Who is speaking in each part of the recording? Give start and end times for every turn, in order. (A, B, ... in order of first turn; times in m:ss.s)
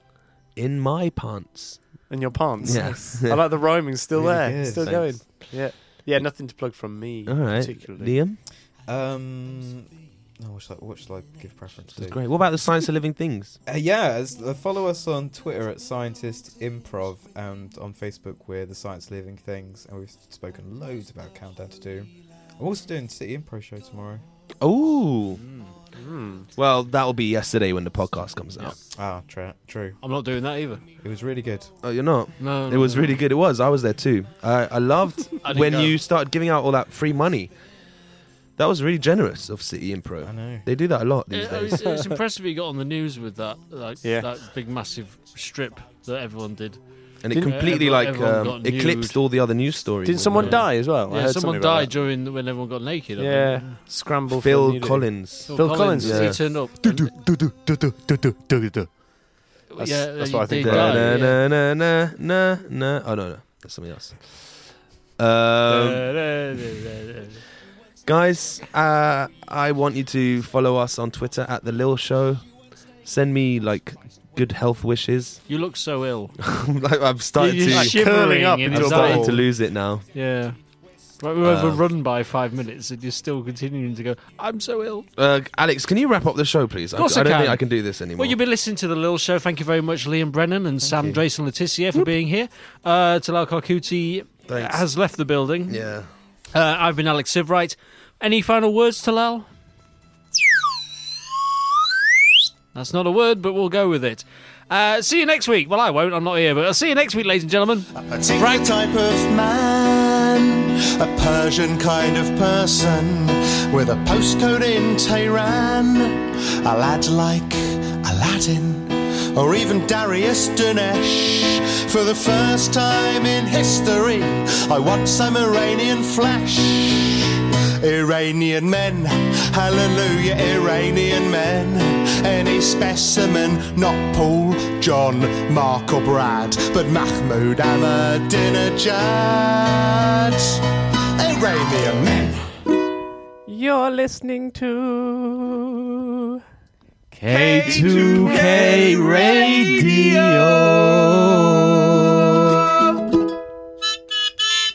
0:00.5-0:02.1 A
0:02.1-0:08.2 B
0:02.6-0:03.2 C
0:02.6-0:03.6 A
0:04.1-0:05.2 C
0:04.8-0:05.8 A
0:07.2-0:08.4 A
0:08.8-0:12.2 C
0:11.9-0:13.6 A
0:13.6-0:24.2 C
0:24.6-0:25.4 A
0:25.4-0:25.7 D
0:25.9-0:26.5 B
0:26.5-0:28.8 A
0:28.9-0:30.0 C
0:30.0-0:30.8 D
0:31.0-0:31.7 C
0:31.8-0:37.5 A
0:32.4-0:33.2 D
0:35.4-0:36.0 D
0:38.6-0:41.8 A
0:40.2-0:40.6 C
0:41.3-0:46.8 D
0:41.8-0:42.0 B
0:44.0-0:44.3 B
0:47.2-0:50.7 A
0:47.4-0:49.2 D
0:50.0-0:51.9 B
0:50.3-0:53.8 D
0:53.2-0:59.0 B
0:54.3-0:56.4 A
0:55.5-0:57.1 D
0:59.7-1:01.4 D
0:59.8-1:01.2 B
1:00.6-1:06.1 A
1:05.7-1:07.4 D
1:08.0-1:15.4 A
1:15.5-1:16.4 D
1:16.4-1:18.0 A
1:17.4-1:19.4 D
1:17.7-1:19.4 B
1:18.6-1:20.0 A
1:20.1-1:20.6 D
1:21.2-1:25.1 D
1:21.4-1:21.8 A
1:25.2-1:28.4 A
1:26.9-1:35.8 D
1:30.8-1:31.2 C
1:34.5-1:34.8 A
1:35.7-1:36.1 A
1:36.5-1:39.5 D
1:42.7-1:48.7 D
1:48.0-2:20.6 E
2:21.2-2:22.4 E
2:23.5-2:25.8 F
2:27.3-2:30.2 E
2:27.6-2:28.8 A
2:28.4-2:29.0 C